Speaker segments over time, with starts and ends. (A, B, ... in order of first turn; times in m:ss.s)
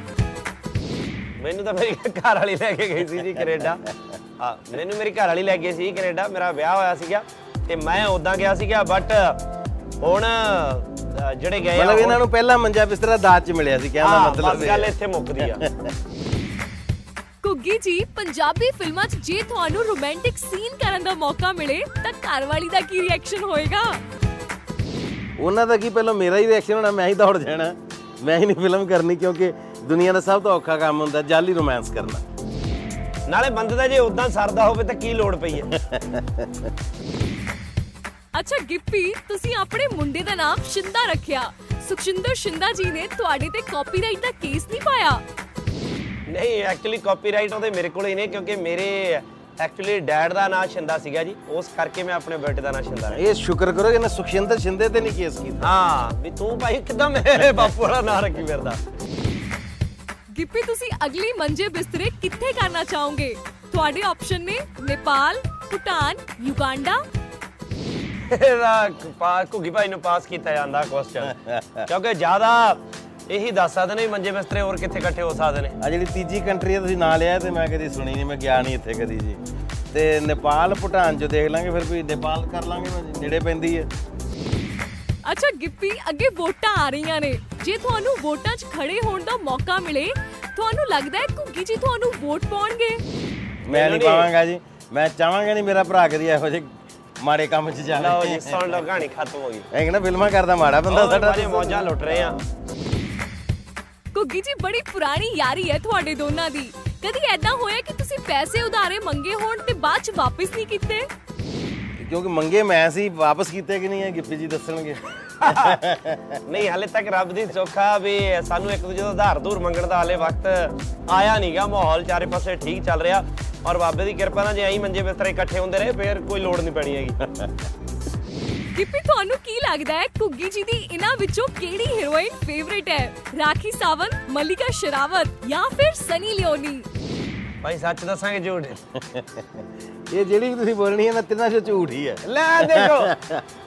0:01.4-0:03.8 A
0:04.4-0:09.4 A
0:10.0-0:12.2 A
0:11.7-0:15.9 B
0:14.0-0:15.6 A
0:17.4-0:24.0 C
0:25.4-0:32.2 B
0:33.3-0:35.7 A
0:35.8-0:36.5 B
0:38.3-0:45.2 C
0:46.3-0:53.2 A
0:53.1-0:55.7 B
0:55.6-0:58.8 A
1:00.3-1:07.0 C
1:08.3-1:11.4 A
1:11.2-1:11.9 B
1:11.9-1:15.7 A
1:15.8-1:19.4 B
1:19.9-1:23.9 B
1:25.2-1:33.0 C
1:33.6-1:34.3 A
1:33.7-1:38.8 B
1:38.0-1:39.7 A
1:39.7-1:42.4 B
1:40.9-1:42.4 A
1:44.1-1:51.1 C
1:52.0-1:56.4 B
1:55.4-1:55.8 A
1:56.5-2:07.2 A
2:08.7-2:16.9 C
2:17.6-2:18.8 A
2:19.0-2:23.4 B
2:22.2-2:23.1 A